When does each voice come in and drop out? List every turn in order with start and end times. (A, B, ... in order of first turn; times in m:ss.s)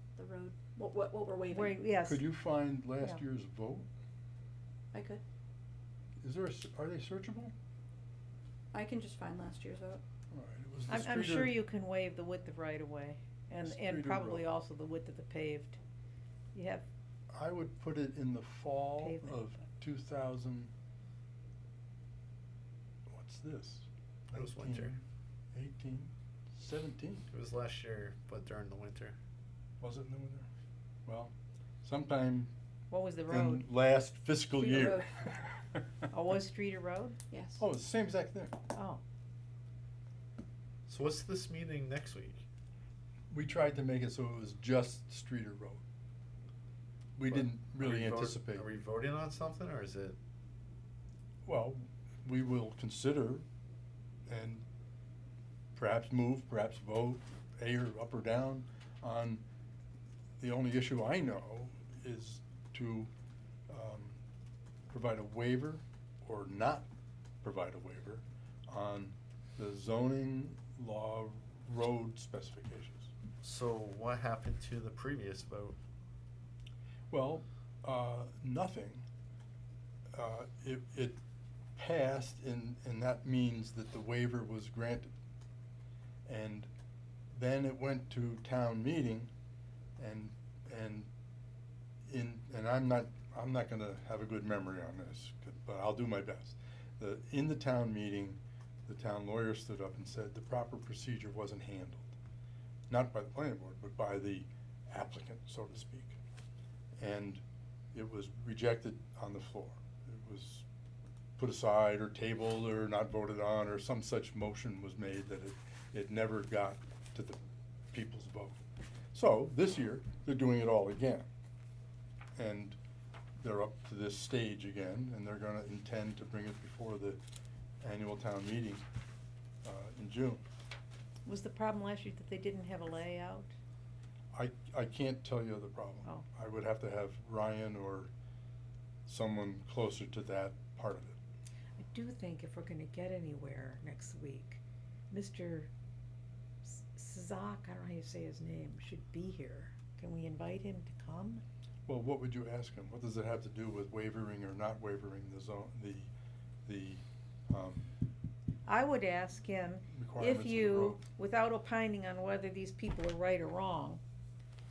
0:00.2-0:01.8 A
0:01.5-0:02.2 B
0:02.0-0:03.9 C
0:04.9-0:05.2 A
0:06.2-0:07.5 C
0:08.7-0:10.0 A
0:10.3-0:11.6 C
0:10.9-0:15.8 B
0:13.6-0:14.4 C
0:16.5-0:16.8 B
0:17.3-0:20.7 C
0:19.0-0:19.4 B
0:23.1-0:24.9 C
0:24.3-0:25.0 D
0:25.5-0:27.3 C
0:27.3-0:29.2 D
0:29.8-0:30.5 C
0:31.0-0:32.5 C
0:32.9-0:33.7 B
0:33.3-0:35.8 C
0:34.5-0:35.3 A
0:36.1-0:37.2 B
0:37.3-0:37.6 A
0:37.6-0:38.6 C
0:38.7-0:39.0 B
0:40.9-0:42.4 D
0:43.3-0:45.8 C
0:47.2-0:48.6 C
0:47.3-0:50.2 D
0:51.4-0:53.4 C
0:54.3-0:54.6 C
0:55.7-0:59.4 C
1:00.4-1:03.1 C
1:03.7-1:04.2 C
1:04.9-1:06.9 C
1:07.4-1:13.1 C
1:13.4-1:15.8 D
1:17.1-1:19.1 C
1:20.1-1:21.2 C
1:21.7-1:25.1 C
1:26.2-1:26.7 C
1:27.3-1:29.3 C
1:30.0-1:31.1 C
1:32.0-1:42.1 C
1:42.9-1:46.2 C
1:47.0-1:50.6 C
1:51.4-1:57.4 C
1:57.9-1:58.6 C
1:59.1-2:01.2 C
2:02.4-2:02.8 C
2:03.4-2:07.2 C
2:07.8-2:08.8 C
2:09.6-2:10.4 C
2:11.2-2:13.5 B
2:14.3-2:18.1 C
2:19.0-2:21.2 C
2:21.8-2:25.7 B
2:26.6-2:31.4 B
2:31.8-2:36.1 C
2:36.6-2:37.9 C
2:38.6-2:44.0 B
2:39.9-2:41.0 C